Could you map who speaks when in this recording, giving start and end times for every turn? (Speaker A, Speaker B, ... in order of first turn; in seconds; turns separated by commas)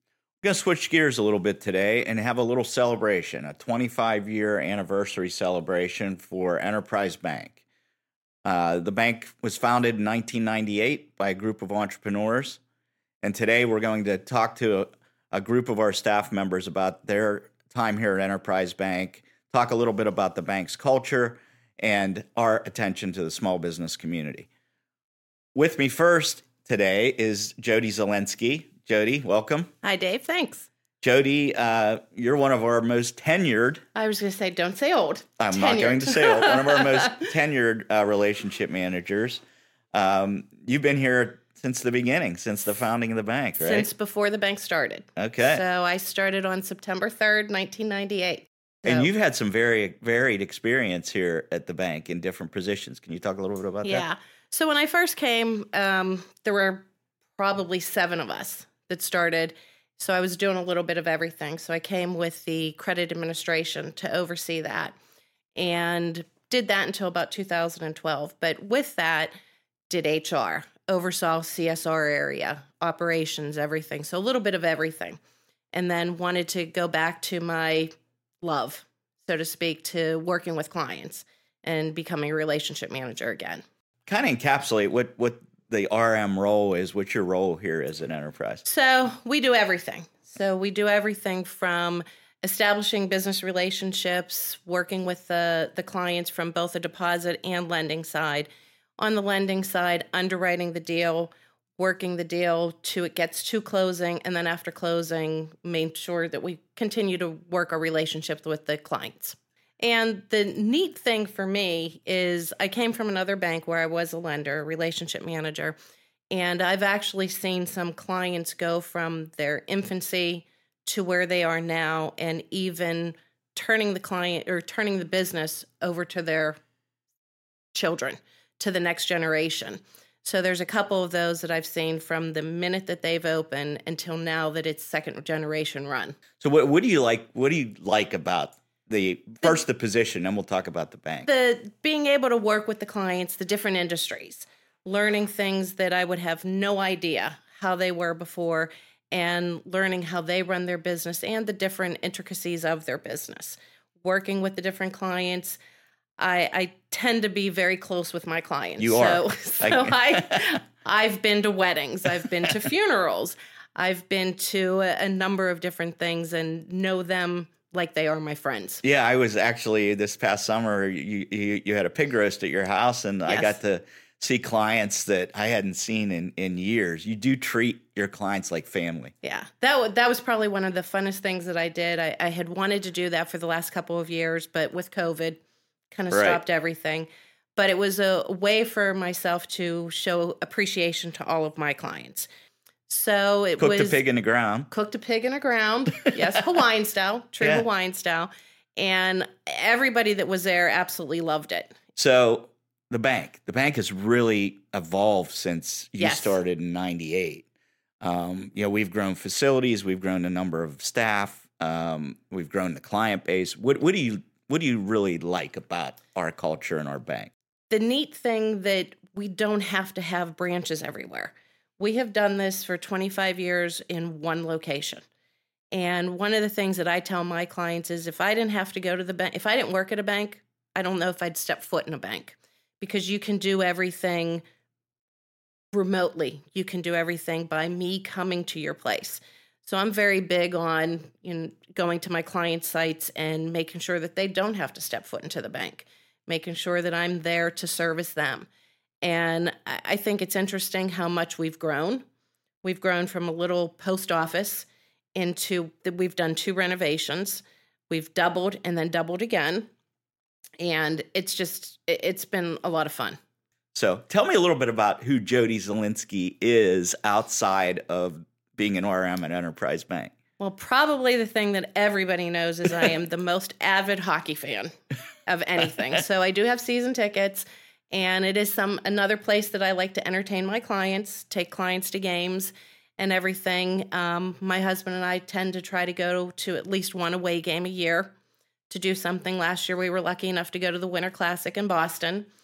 Speaker A: 0.4-7.6, Speaker A: 8.4-12.6, Speaker A: 13.2-24.5, Speaker A: 25.5-29.7, Speaker B: 29.8-30.7, Speaker A: 31.0-33.8, Speaker B: 33.9-37.1, Speaker A: 35.4-39.4, Speaker A: 39.9-43.9, Speaker B: 43.6-49.1, Speaker A: 45.1-45.6, Speaker A: 48.8-54.0, Speaker B: 53.8-56.8, Speaker B: 57.4-64.9, Speaker B: 65.5-69.3, Speaker B: 69.9-75.2, Speaker B: 75.7-83.6, Speaker A: 84.1-88.6, Speaker B: 88.7-115.8, Speaker B: 116.3-126.6, Speaker B: 127.7-136.2, Speaker A: 136.4-141.3, Speaker B: 141.2-155.6, Speaker B: 156.2-168.8, Speaker A: 158.8-160.4, Speaker A: 168.8-179.1, Speaker B: 173.2-173.5, Speaker B: 179.2-185.4, Speaker B: 185.9-192.3, Speaker A: 186.1-186.4, Speaker B: 192.9-194.0, Speaker A: 193.6-194.7, Speaker B: 194.7-201.7, Speaker A: 201.9-207.4, Speaker B: 206.0-206.4, Speaker A: 208.0-217.3, Speaker B: 217.7-225.0, Speaker B: 225.7-234.4, Speaker B: 235.7-248.5, Speaker B: 249.0-252.0, Speaker B: 252.6-259.7, Speaker B: 260.6-263.2, Speaker A: 263.7-270.1, Speaker B: 270.4-274.7, Speaker B: 275.2-288.1, Speaker B: 288.7-292.3